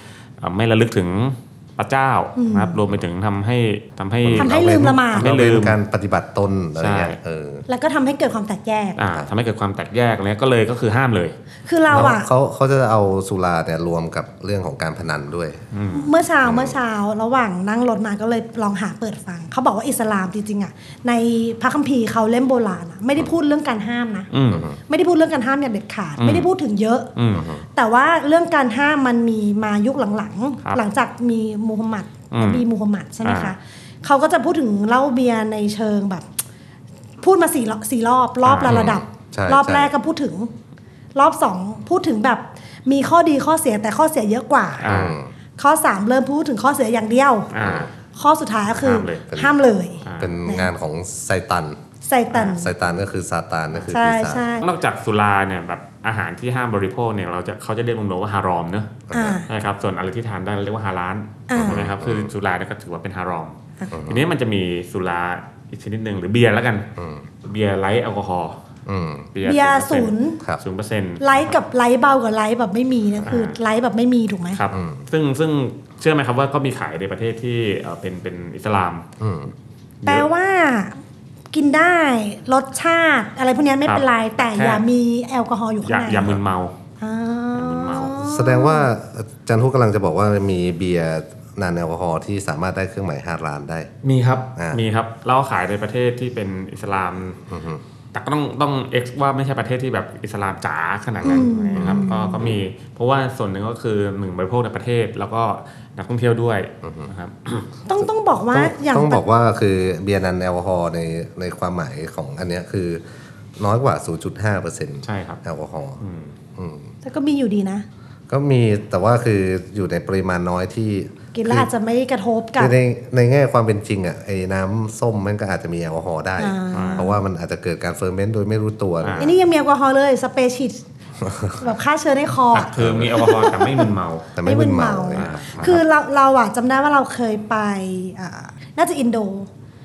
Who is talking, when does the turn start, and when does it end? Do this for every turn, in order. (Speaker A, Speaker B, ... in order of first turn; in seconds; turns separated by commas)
Speaker A: 0.4-5.8, Speaker B: 2.4-2.8, Speaker C: 4.2-7.7, Speaker B: 4.4-5.3, Speaker A: 6.8-7.2, Speaker B: 7.7-9.0, Speaker A: 9.0-11.3, Speaker B: 11.7-12.3, Speaker C: 11.9-15.6, Speaker A: 15.7-16.1, Speaker B: 15.9-24.3, Speaker C: 16.4-16.8, Speaker A: 24.3-24.7, Speaker C: 24.5-24.8, Speaker B: 24.9-27.1, Speaker A: 26.2-26.5, Speaker A: 27.2-27.5, Speaker C: 27.4-27.6, Speaker B: 27.8-36.3, Speaker A: 32.3-32.6, Speaker A: 33.2-33.5, Speaker B: 37.2-40.5, Speaker A: 38.5-38.9, Speaker C: 38.6-39.9, Speaker B: 41.1-44.9, Speaker A: 44.8-45.2, Speaker C: 44.9-45.3, Speaker B: 45.6-47.5, Speaker A: 47.5-47.9, Speaker C: 47.6-47.9, Speaker B: 48.2-50.7, Speaker A: 48.8-49.3, Speaker C: 49.3-49.5, Speaker A: 50.0-50.4, Speaker C: 50.2-51.8, Speaker B: 52.0-52.7, Speaker C: 52.3-54.5, Speaker B: 53.9-54.7, Speaker A: 54.6-66.9, Speaker C: 59.1-59.4, Speaker B: 59.1-59.5, Speaker B: 61.5-61.8, Speaker C: 61.5-62.3, Speaker C: 63.9-64.2, Speaker C: 67.0-67.3, Speaker A: 67.4-68.6, Speaker C: 68.9-69.3, Speaker A: 69.3-71.5, Speaker B: 69.5-70.4, Speaker B: 71.2-74.6, Speaker A: 73.2-73.6, Speaker A: 74.5-79.1, Speaker C: 74.7-75.0, Speaker C: 79.2-79.5, Speaker B: 80.0-81.0, Speaker B: 81.5-86.4, Speaker A: 83.9-84.8, Speaker A: 85.8-86.8, Speaker B: 87.0-88.9, Speaker A: 87.5-88.2, Speaker C: 88.2-93.9, Speaker A: 94.0-97.4, Speaker C: 97.5-97.8, Speaker A: 98.1-107.7, Speaker B: 101.2-102.4, Speaker C: 101.2-102.6, Speaker C: 106.8-107.1, Speaker B: 107.9-109.2, Speaker C: 108.5-113.0, Speaker C: 113.6-116.0, Speaker A: 115.0-115.4, Speaker A: 116.0-116.3, Speaker C: 116.6-116.9, Speaker B: 117.0-117.9, Speaker C: 118.3-121.7, Speaker B: 121.3-122.7, Speaker C: 122.6-129.4, Speaker B: 126.4-127.2, Speaker A: 126.7-127.1, Speaker A: 129.0-129.3, Speaker B: 129.2-130.8, Speaker C: 131.2-131.6, Speaker B: 131.6-133.9, Speaker A: 132.5-134.3, Speaker C: 132.8-133.1, Speaker C: 134.3-135.8, Speaker B: 134.4-139.5, Speaker A: 135.2-135.8